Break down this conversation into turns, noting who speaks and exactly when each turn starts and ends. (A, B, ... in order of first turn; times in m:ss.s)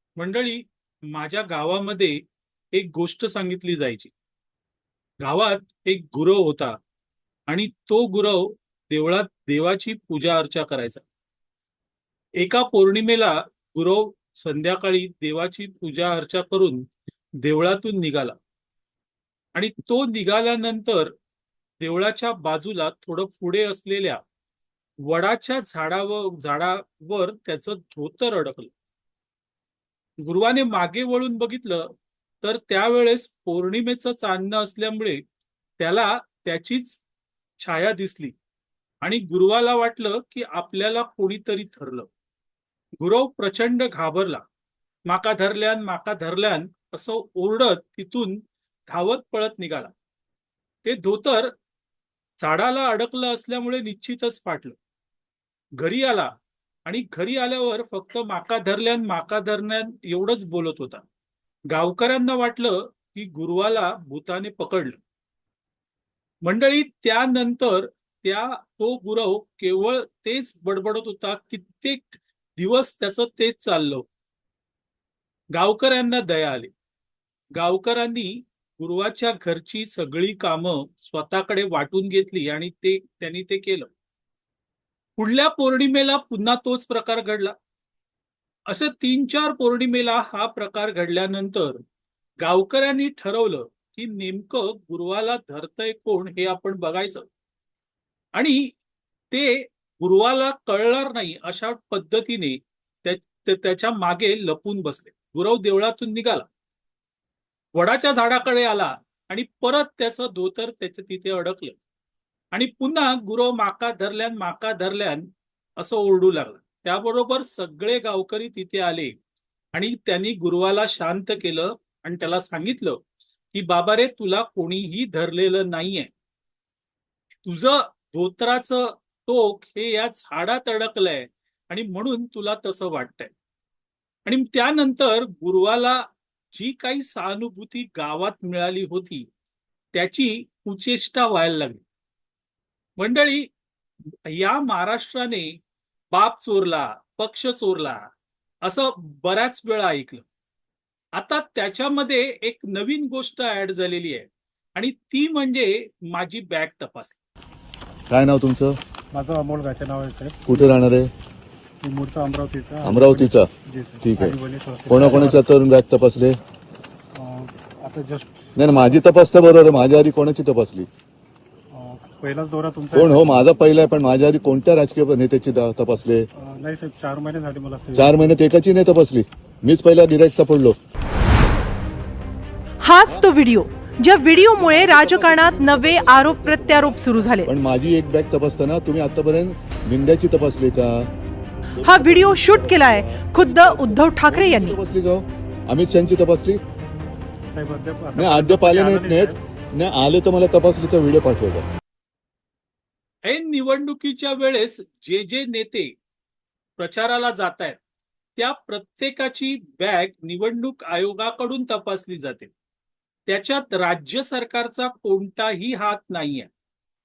0:00.2-0:02.2 A
0:02.7-0:04.1 A
0:05.2-0:06.8 A
0:07.5-0:11.0 A
0:12.4-0:16.8 A
0:17.4-0:18.4 A
0:19.5-0:21.1 A
0:21.8-0:24.2 A
0:25.0-0:28.7 A
0:30.2-0:31.9 A
0:32.4-0:35.2 A
0:35.8-0:37.0 A
0:37.6-0:38.3 A
0:39.0-0:42.1 A
0:43.0-0:44.4 A
0:45.1-0:49.9 A
0:50.8-0:51.5 A
0:52.4-0:54.8 A
0:55.8-0:56.3 A
0:56.8-1:01.0 A
1:01.7-1:05.0 A
1:06.4-1:14.0 A
1:15.5-1:16.7 A
1:17.6-1:23.9 A
1:25.2-1:27.5 A
1:28.7-1:31.8 A
1:32.4-1:37.3 A
1:38.4-1:38.7 A
1:39.3-1:46.5 A
1:47.7-1:51.8 A
1:52.5-1:55.3 A
1:55.8-1:59.1 A
1:59.7-2:03.0 A
2:03.5-2:06.1 A
2:07.4-2:13.3 A
2:14.2-2:16.0 A
2:16.5-2:19.2 A
2:19.9-2:21.8 A
2:23.0-2:23.5 A
2:24.3-2:25.5 A
2:26.1-2:28.1 A
2:28.6-2:30.2 A
2:31.2-2:37.2 A
2:38.1-2:38.8 B
2:39.1-2:40.8 C
2:40.5-2:41.1 B
2:41.8-2:45.4 C
2:42.8-2:43.5 B
2:44.0-2:44.4 B
2:44.9-2:46.4 B
2:47.1-2:49.0 C
2:48.6-2:50.9 B
2:51.7-2:53.6 C
2:52.9-2:56.3 B
2:56.4-2:58.3 C
2:57.9-3:00.8 B
3:02.8-3:07.5 D
3:03.0-3:11.1 B
3:11.7-3:16.6 B
3:11.8-3:14.8 D
3:17.5-3:19.4 C
3:18.1-3:21.6 B
3:23.2-3:25.9 A
3:26.8-3:27.8 A
3:28.4-3:32.5 A
3:33.2-3:36.5 A